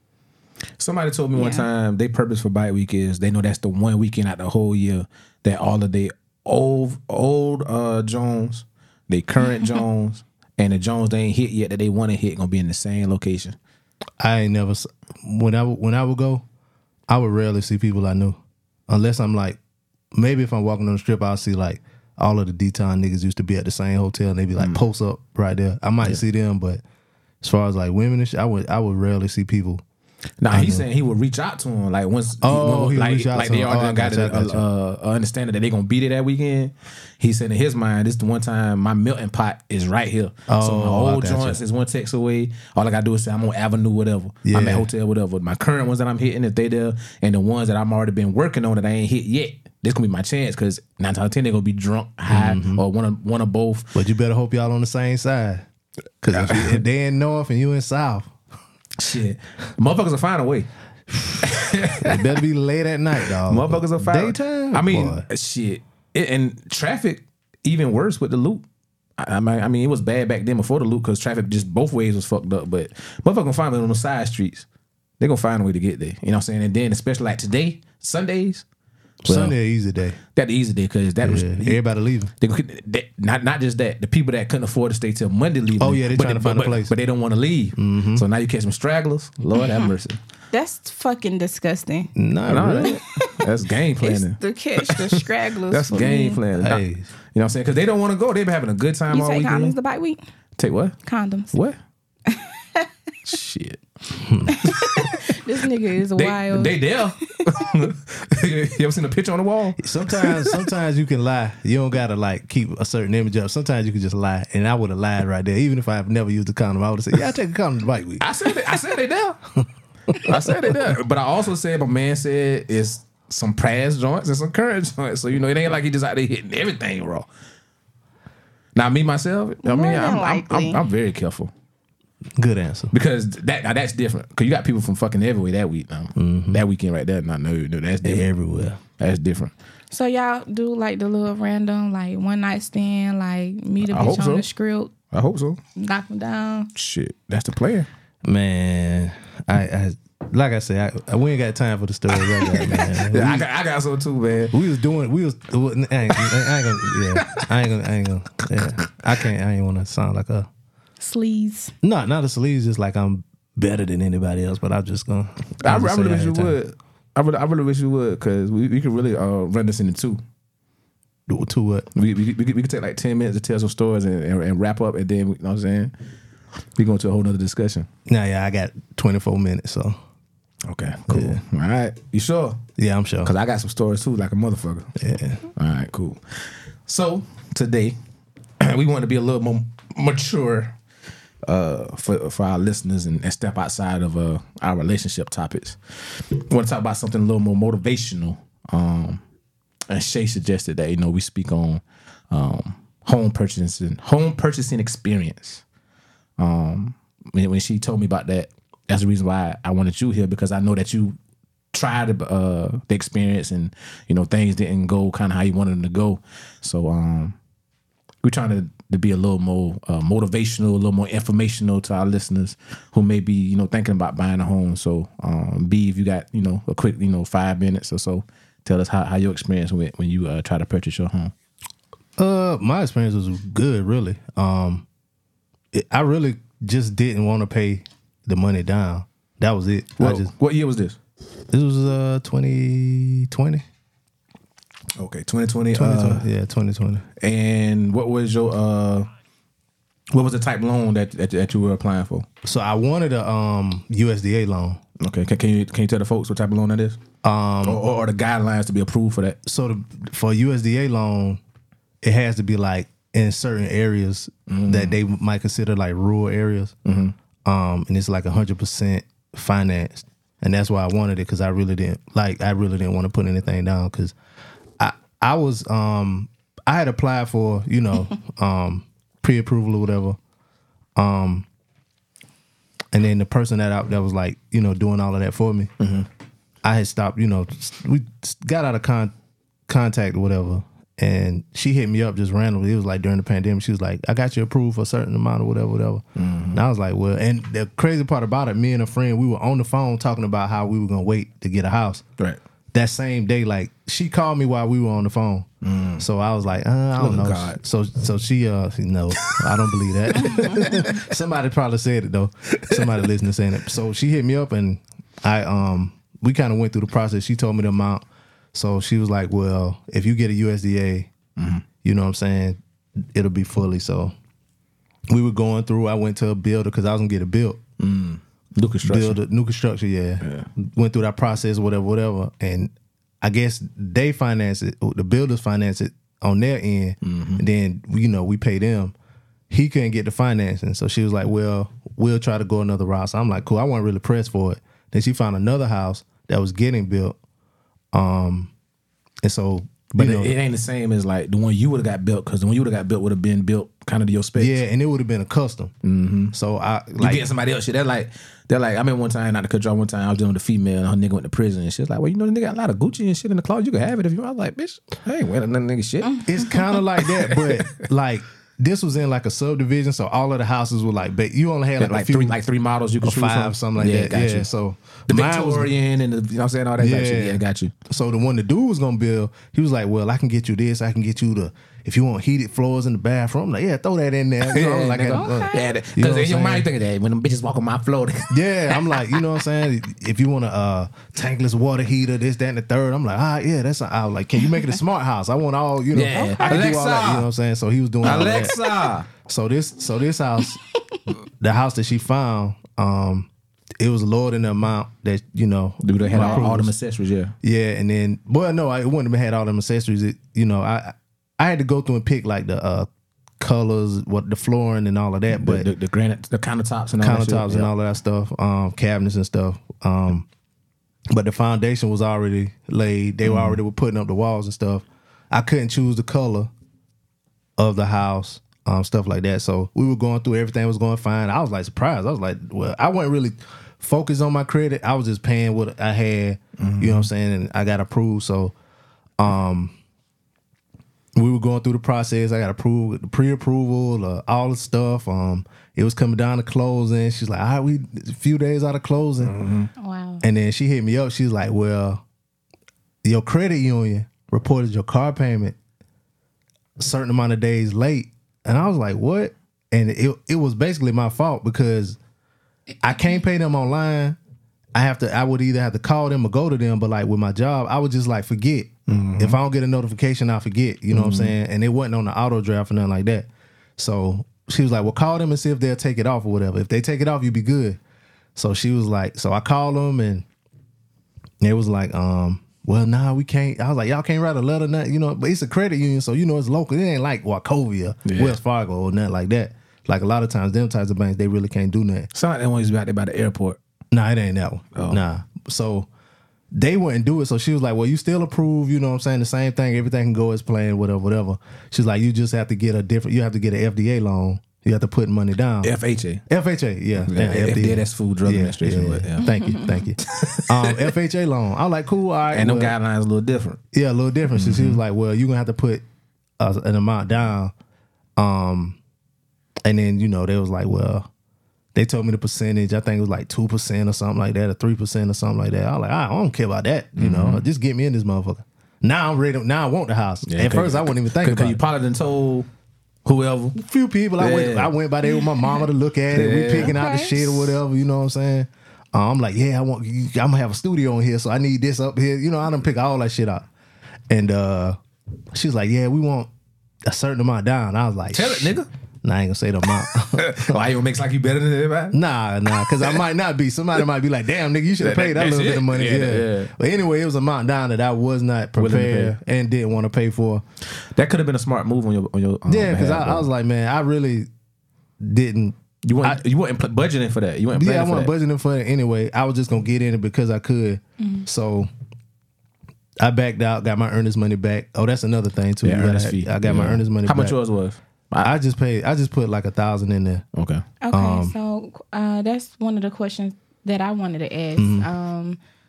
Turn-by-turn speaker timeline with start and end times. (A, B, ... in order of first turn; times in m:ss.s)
0:00.8-0:13.6 A
0:01.3-0:01.6 B
0:14.2-0:16.4 C
0:17.1-0:18.4 C
0:18.9-0:19.6 C
0:20.2-0:26.8 C
0:27.4-0:29.8 C
0:30.4-0:53.9 A
0:30.5-0:30.9 C
0:32.4-0:34.6 C
0:40.5-0:41.6 C
0:44.4-0:44.9 C
0:52.3-0:52.8 C
0:54.0-0:55.7 C
0:56.2-0:58.3 C
0:56.3-0:56.8 A
0:59.0-1:00.7 A
1:01.4-1:02.3 A
1:02.0-1:05.2 C
1:03.5-1:08.6 A
1:09.2-1:14.7 A
1:15.2-1:18.6 A
1:19.2-1:19.6 A
1:19.2-1:20.2 C
1:20.4-1:21.8 A
1:21.2-1:22.3 C
1:22.4-1:30.2 A
1:25.8-1:26.9 C
1:27.8-1:28.2 C
1:29.6-1:29.9 B
1:30.5-1:32.1 B
1:32.2-1:33.0 C
1:32.5-1:35.2 A
1:32.7-1:33.4 B
1:34.0-1:36.4 B
1:35.7-1:39.8 A
1:36.6-1:37.1 C
1:39.1-1:40.2 B
1:40.6-1:41.0 A
1:41.0-1:41.6 B
1:42.3-1:42.9 B
1:43.2-1:43.8 A
1:44.2-1:44.6 C
1:44.6-1:46.8 B
1:44.6-1:45.3 A
1:46.2-1:50.6 A
1:49.8-1:58.2 C
1:58.2-1:59.4 A
2:00.2-2:07.3 A
2:00.3-2:00.5 C
2:08.8-2:11.5 A
2:09.6-2:10.8 B
2:12.4-2:12.9 C
2:12.9-2:18.3 A
2:16.2-2:16.6 C
2:18.0-2:18.8 C
2:19.0-2:19.5 A
2:19.9-2:24.9 B
2:23.9-2:24.5 A
2:25.1-2:25.6 A
2:25.8-2:26.7 B
2:26.8-2:27.9 A
2:28.2-2:33.5 C
2:32.3-2:34.6 A
2:34.5-2:40.5 C
2:36.9-2:37.5 A
2:38.4-2:38.9 A
2:41.0-2:41.7 B
2:41.8-2:46.6 C
2:45.6-2:50.2 A
2:51.3-2:51.9 C
2:52.0-2:55.9 A
2:56.8-2:57.9 A
2:58.1-3:00.0 C
3:00.6-3:02.6 A
3:01.1-3:01.4 C
3:02.8-3:03.3 C
3:03.2-3:04.9 A
3:05.0-3:05.4 C
3:05.6-3:08.0 A
3:08.6-3:10.8 A
3:11.4-3:15.8 A
3:16.3-3:19.2 A
3:19.9-3:25.6 A
3:26.4-3:31.2 A
3:31.7-3:37.4 A
3:38.2-3:51.3 A
3:52.2-3:54.9 C
3:55.7-4:00.3 C
4:00.0-4:01.0 A
4:01.5-4:03.6 C
4:05.0-4:06.2 A
4:05.7-4:07.1 C
4:07.2-4:09.1 A
4:10.1-4:12.3 A
4:12.4-4:14.8 C
4:15.0-4:17.0 A
4:17.2-4:17.8 C
4:17.6-4:19.4 A
4:19.4-4:21.4 C
4:22.0-4:26.8 C
4:24.5-4:25.0 A
4:26.9-4:27.2 A
4:27.4-4:34.2 C
4:34.8-4:40.2 C
4:41.0-4:41.5 C
4:42.9-4:45.7 C
4:45.8-4:46.1 A
4:46.6-4:49.1 C
4:49.7-5:02.0 C
4:56.2-4:56.6 A
5:02.7-5:05.5 C
5:05.6-5:06.1 A
5:06.0-5:21.1 C
5:07.0-5:07.6 A
5:09.3-5:10.9 A
5:10.2-5:10.6 B
5:21.4-5:21.6 A
5:21.8-5:22.6 C
5:23.1-5:24.1 C
5:25.1-5:27.6 C
5:27.8-5:29.2 A
5:28.8-5:38.9 C
5:30.2-5:30.5 A
5:37.0-5:37.4 A
5:39.5-5:47.2 C
5:47.9-5:48.5 C
5:49.2-5:50.4 C
5:50.0-5:54.6 A
5:54.4-5:55.7 C
5:55.8-5:56.3 A
5:56.3-5:57.3 C
5:57.0-6:06.3 A
6:06.0-6:06.6 B
6:06.3-6:12.4 C
6:07.0-6:07.6 A
6:11.8-6:14.5 A
6:13.0-6:15.7 C
6:15.1-6:17.7 A
6:16.8-6:26.7 C
6:24.4-6:29.2 A
6:25.1-6:25.7 B
6:28.3-6:38.6 C
6:35.9-6:37.3 A
6:36.1-6:36.7 B
6:38.0-6:39.1 A
6:39.2-6:40.6 C
6:41.4-6:46.7 C
6:45.8-6:47.3 A
6:46.2-6:46.4 B
6:47.4-6:52.9 C
6:53.4-6:55.7 C
6:55.3-6:57.7 A
6:57.0-7:00.3 C
7:01.1-7:06.5 C
7:03.2-7:03.6 A
7:07.6-7:18.5 C
7:16.6-7:17.1 A
7:19.2-7:19.8 C
7:21.2-7:29.4 C
7:29.2-7:29.7 A
7:29.8-7:30.2 B
7:30.2-7:32.0 C
7:33.0-7:35.6 C
7:36.8-7:42.0 C
7:42.8-7:44.2 C
7:44.8-7:57.8 C
7:48.9-7:49.4 A
7:50.9-7:51.3 A
7:58.4-8:00.2 C
8:01.4-8:12.1 C
8:08.0-8:08.4 A
8:12.1-8:13.6 A
8:13.9-8:15.9 C
8:14.8-8:15.0 A
8:16.6-8:25.7 C
8:25.6-8:26.2 A
8:26.3-8:32.8 C
8:27.1-8:29.3 A
8:29.2-8:29.8 B
8:30.0-8:30.9 A
8:32.3-8:33.6 A
8:33.7-8:35.8 C
8:34.3-8:34.8 A
8:36.4-8:37.5 C
8:38.2-8:38.8 C
8:39.6-8:41.1 C
8:41.8-8:51.6 C
8:47.0-8:47.4 A
8:50.2-8:52.5 A
8:53.0-8:53.6 A
8:53.6-9:03.5 C
8:54.2-8:54.7 A
8:56.1-8:56.8 A
8:56.6-8:57.3 B
9:04.1-9:04.8 C
9:05.3-9:06.3 C
9:06.9-9:08.5 C
9:08.1-9:08.7 A
9:09.0-9:10.5 C
9:10.1-9:12.0 A
9:11.9-9:20.4 C
9:12.6-9:12.9 A
9:14.8-9:16.5 A
9:18.6-9:19.2 A
9:21.0-9:23.3 A
9:22.5-9:24.3 C
9:25.0-9:26.2 C
9:25.8-9:28.1 A
9:27.5-9:31.7 C
9:31.0-9:31.3 B
9:33.0-9:37.4 C
9:35.6-9:38.3 A
9:38.2-9:40.2 C
9:40.4-9:40.6 A
9:40.8-9:45.4 B
9:40.9-9:41.4 C
9:44.6-9:44.9 C